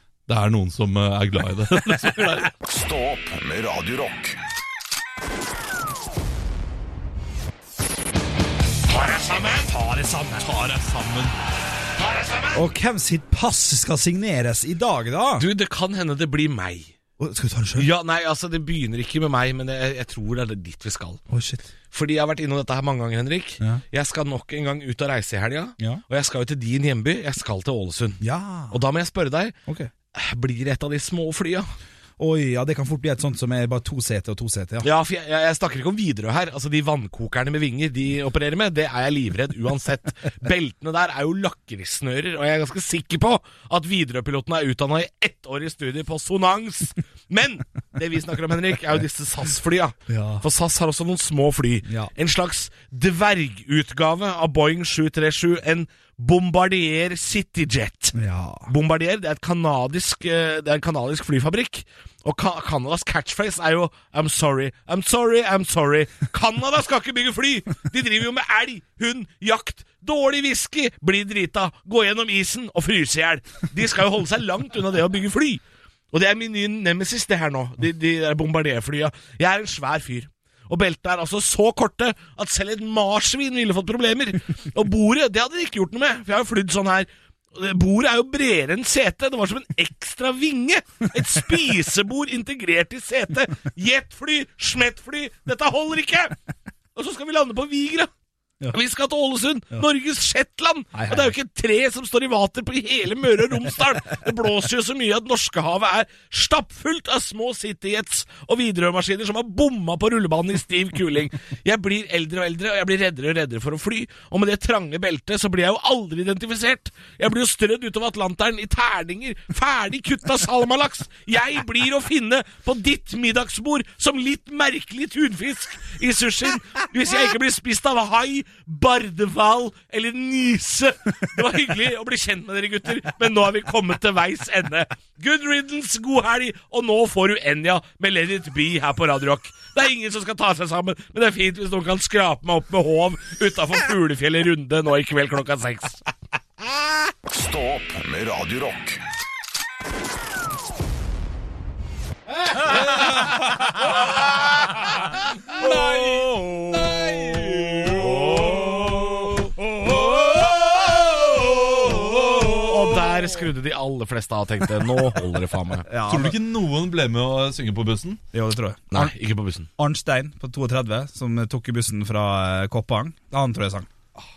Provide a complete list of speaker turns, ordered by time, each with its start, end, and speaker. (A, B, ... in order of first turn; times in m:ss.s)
0:00.3-0:02.4 A
0:01.8-0:02.5 B
0:02.6-0:04.4 C
0:08.9-0:09.7 B
0:09.7-0:10.6 D
0:10.4-0:11.3 A
0:12.0-0:12.6 B
0:12.5-0:15.5 D
0:15.4-0:16.9 B
0:17.2-0:17.9 D
0:17.8-0:21.2 B
0:21.3-0:21.7 D
0:21.9-0:29.6 B
0:28.2-0:28.8 D
0:30.1-0:31.6 B
0:32.2-0:34.9 D
0:34.8-1:36.4 B
0:50.1-0:50.4 D
0:58.1-0:58.7 D
1:36.9-1:38.1 B
1:38.7-2:26.0 B
1:40.9-1:41.3 D
2:27.3-2:29.0 C
2:32.7-2:34.4 A
2:35.5-2:39.1 A
2:37.9-2:39.3 B
2:39.8-2:42.7 A
2:40.0-2:40.5 B
2:42.3-2:45.9 B
2:45.9-2:46.4 D
2:46.1-2:48.2 A
2:48.3-2:49.1 D
2:48.9-2:49.7 B
2:49.8-2:53.9 D